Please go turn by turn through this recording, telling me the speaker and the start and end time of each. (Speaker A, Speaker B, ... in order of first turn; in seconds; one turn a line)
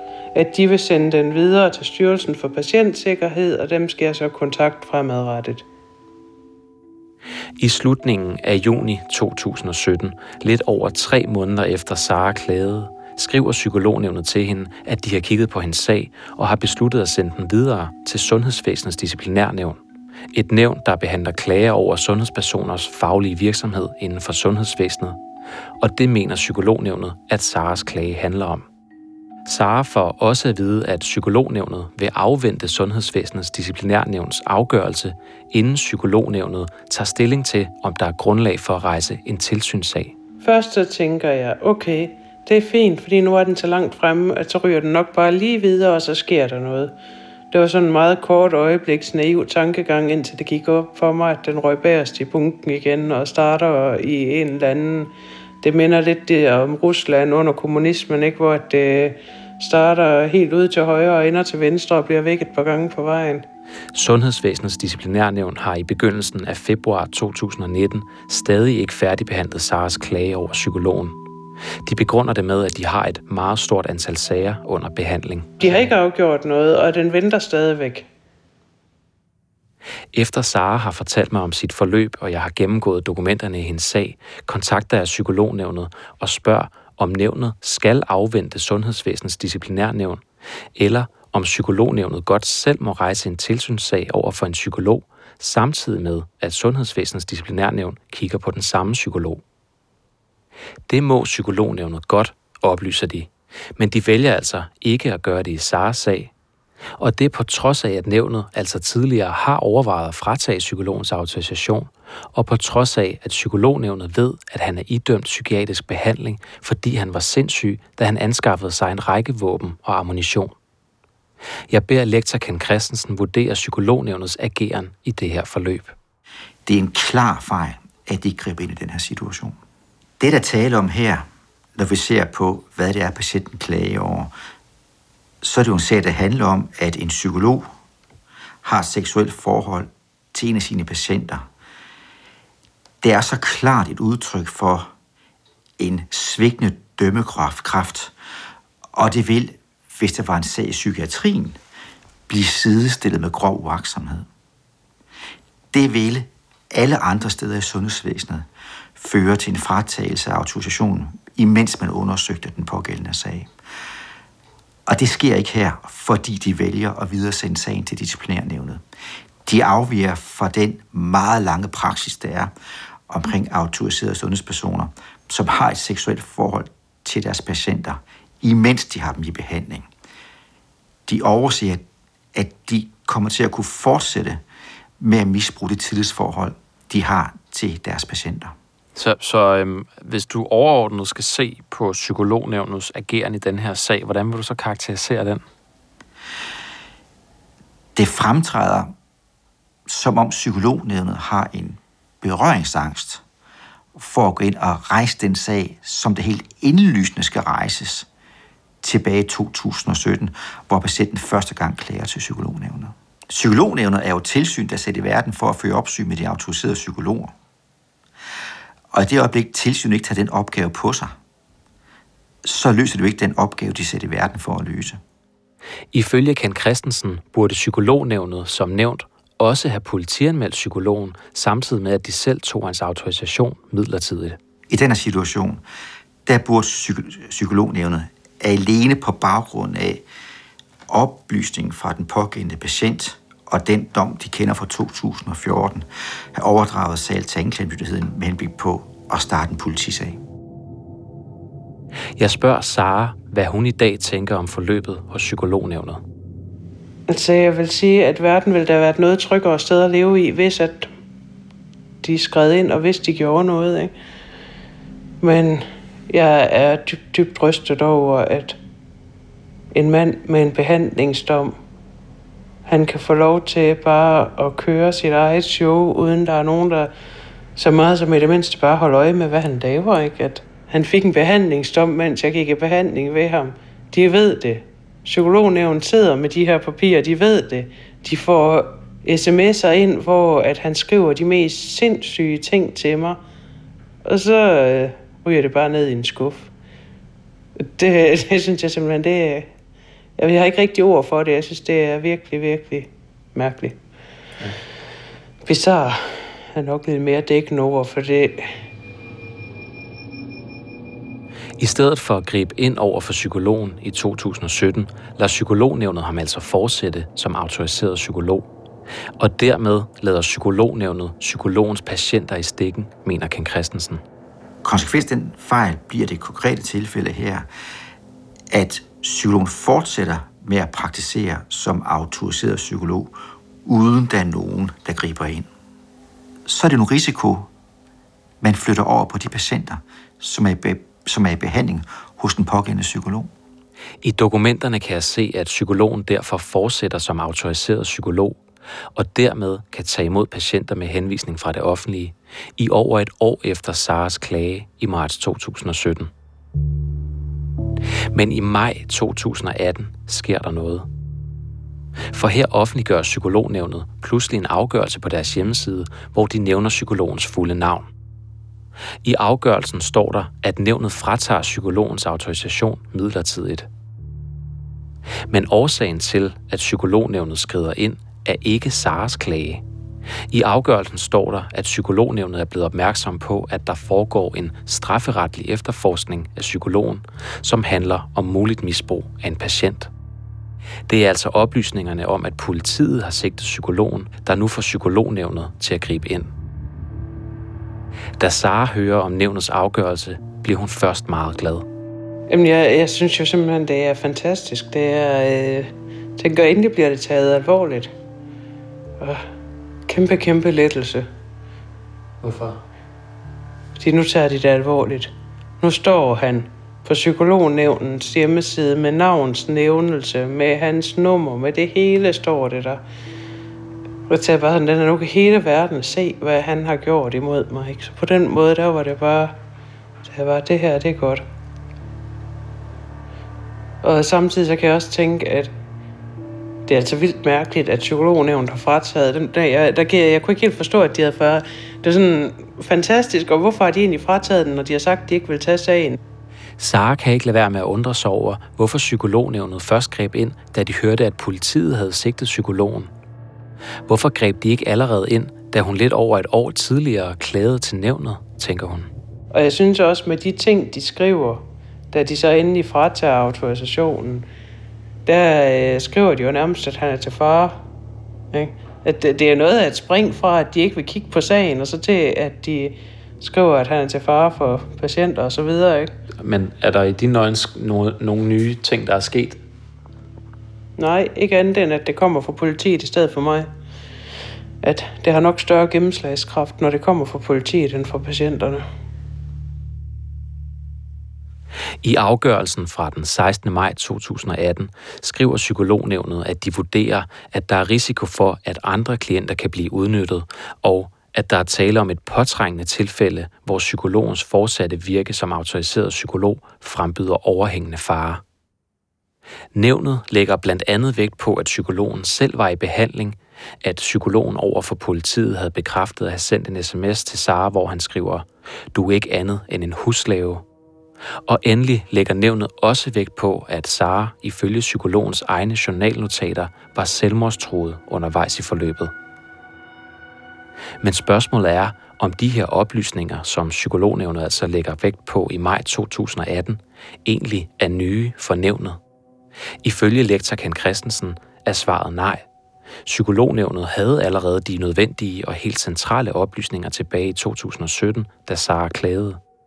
Speaker A: 0.3-5.6
Speaker B: 7.6-19.8
Speaker B: 20.3-25.2
Speaker B: 25.8-28.6
Speaker B: 29.5-40.2
Speaker A: 40.4-46.9
Speaker A: 47.5-55.1
Speaker A: 55.6-63.5
Speaker B: 63.9-71.2
Speaker B: 71.8-75.6
Speaker A: 75.6-78.1
Speaker B: 80.1-90.2
Speaker B: 90.8-99.4
Speaker B: 100.9-106.3
Speaker B: 107.0-120.5
Speaker B: 121.7-126.0
Speaker C: 126.7-129.6
Speaker C: 130.2-134.3
Speaker C: 135.4-137.7
Speaker C: 138.6-141.4
Speaker C: 143.0-144.9
Speaker C: 145.8-148.1
Speaker C: 148.9-151.6
Speaker C: 152.3-154.3
Speaker C: 155.7-163.5
Speaker C: 164.9-168.8
Speaker C: 169.4-172.5
Speaker C: 173.1-179.9
Speaker C: 181.1-181.8
Speaker C: 182.3-184.4
Speaker C: 185.0-188.6
Speaker B: 189.0-195.4
Speaker C: 198.0-198.9
Speaker C: 199.9-203.2
Speaker C: 203.9-208.1
Speaker C: 208.8-217.3
Speaker C: 218.9-221.2
Speaker C: 222.4-225.0
Speaker B: 225.9-234.4
Speaker C: 234.7-235.6
Speaker C: 236.3-240.0
Speaker C: 240.9-250.2
Speaker B: 252.2-256.0
Speaker A: 257.1-260.9
Speaker A: 262.0-263.9
Speaker A: 265.2-268.6
Speaker A: 269.7-271.6
Speaker A: 272.7-276.9
Speaker A: 277.6-293.2
Speaker A: 294.1-296.5
Speaker A: 297.6-299.5
Speaker A: 300.2-303.8
Speaker A: 305.5-308.5
Speaker B: 311.6-318.5
Speaker B: 319.2-324.0
Speaker C: 324.6-327.5
Speaker C: 328.5-333.1
Speaker C: 333.6-335.5
Speaker C: 336.5-337.5
Speaker C: 338.4-343.3
Speaker B: 344.0-348.4
Speaker B: 349.0-356.1
Speaker B: 358.1-360.9
Speaker B: 362.1-367.9
Speaker B: 369.0-373.7
Speaker B: 375.3-379.6
Speaker B: 380.3-389.9
Speaker B: 390.9-396.3
Speaker B: 398.2-401.7
Speaker A: 402.3-407.9
Speaker A: 409.0-409.2
Speaker A: 409.9-411.1
Speaker B: 412.2-412.6
Speaker A: 413.8-422.8
Speaker A: 424.1-429.4
Speaker A: 430.1-431.2
Speaker A: 433.8-435.5
Speaker A: 436.7-446.0
Speaker B: 446.6-452.9
Speaker B: 453.9-458.9
Speaker A: 459.3-464.3
Speaker A: 465.1-467.6
Speaker A: 468.3-475.9
Speaker B: 476.2-479.4
Speaker A: 480.8-483.5
Speaker A: 484.6-488.6
Speaker B: 491.8-508.2
Speaker B: 509.6-520.4
Speaker B: 521.3-528.9
Speaker B: 530.8-538.8
Speaker B: 539.6-542.3
Speaker B: 542.9-549.2